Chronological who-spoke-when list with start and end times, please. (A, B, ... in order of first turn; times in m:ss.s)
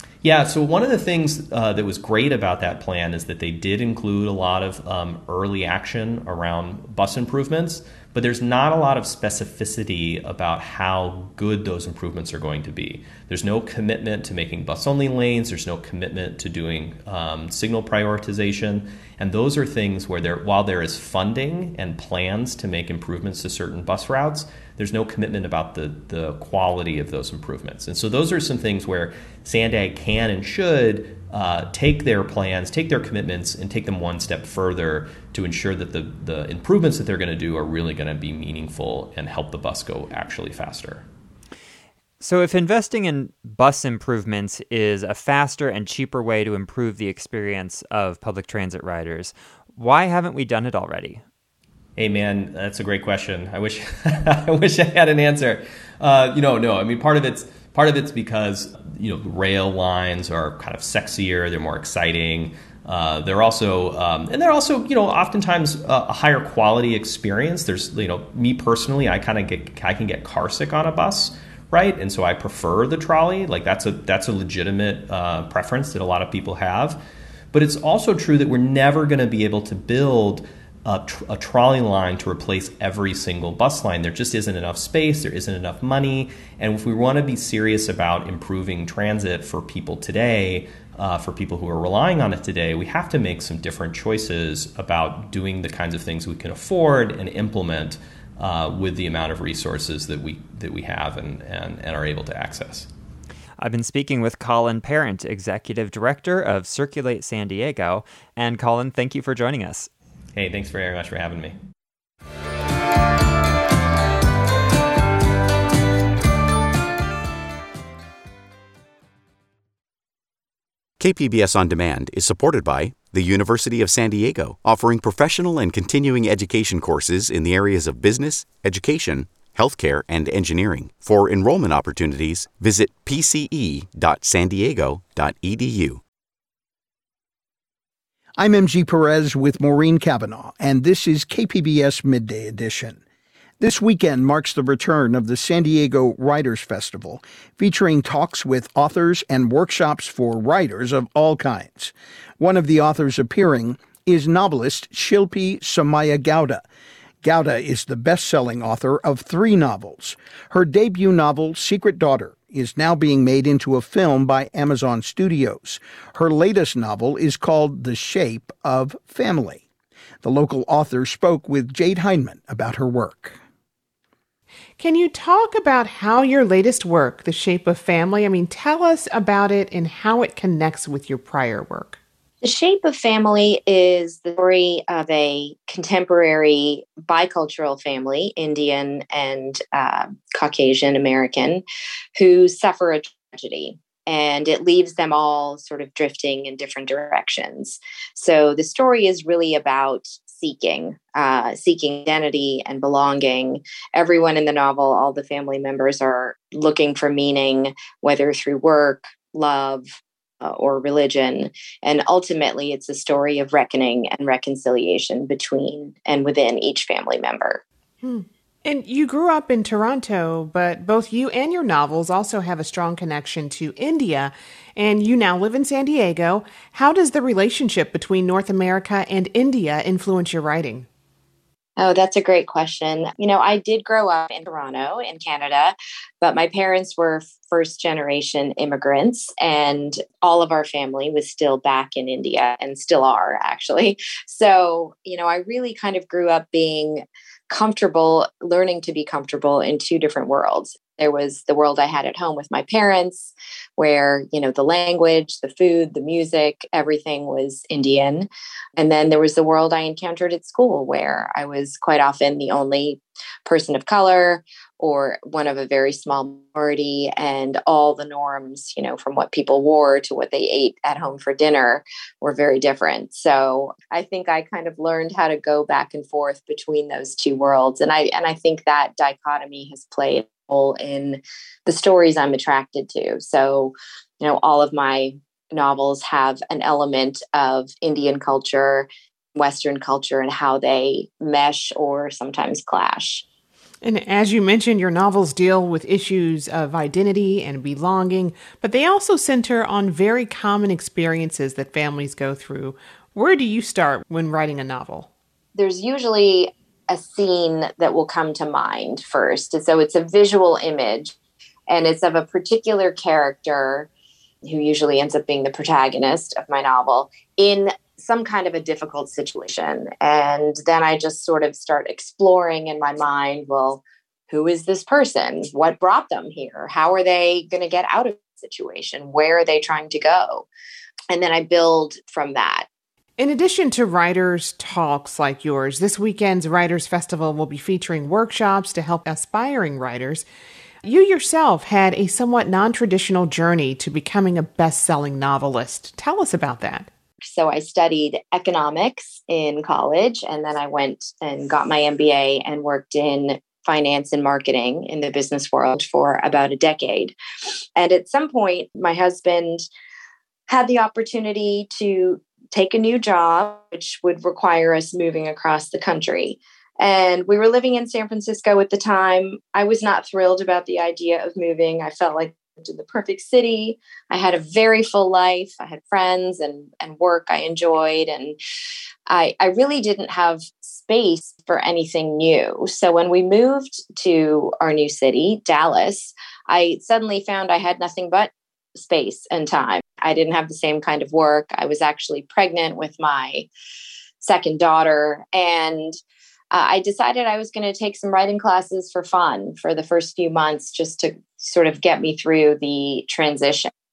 0:00.2-0:41.0 A
0:42.2-0:51.2 B
0:52.0-1:17.0 A
1:17.5-1:42.9 A
1:43.6-1:49.9 B
1:50.4-1:51.6 A
2:01.0-2:16.0 C
2:18.4-2:23.0 D
2:23.6-2:36.6 D
2:37.2-2:49.6 D
2:50.2-2:53.4 D
2:54.8-3:02.0 E
3:02.4-3:11.6 F
3:12.2-3:37.6 F
3:38.0-3:50.8 E
3:51.8-4:53.2 F
4:53.8-5:05.1 E
5:05.5-5:11.1 F
5:11.7-5:13.9 F
5:14.4-5:30.5 F
5:31.1-5:32.7 F
5:33.2-5:40.2 E
5:40.8-5:46.9 E
5:47.2-5:57.1 F
5:57.8-5:59.6 F
6:00.5-6:18.4 F
6:19.1-6:33.5 F
6:34.2-6:36.0 F
6:36.5-6:43.7 F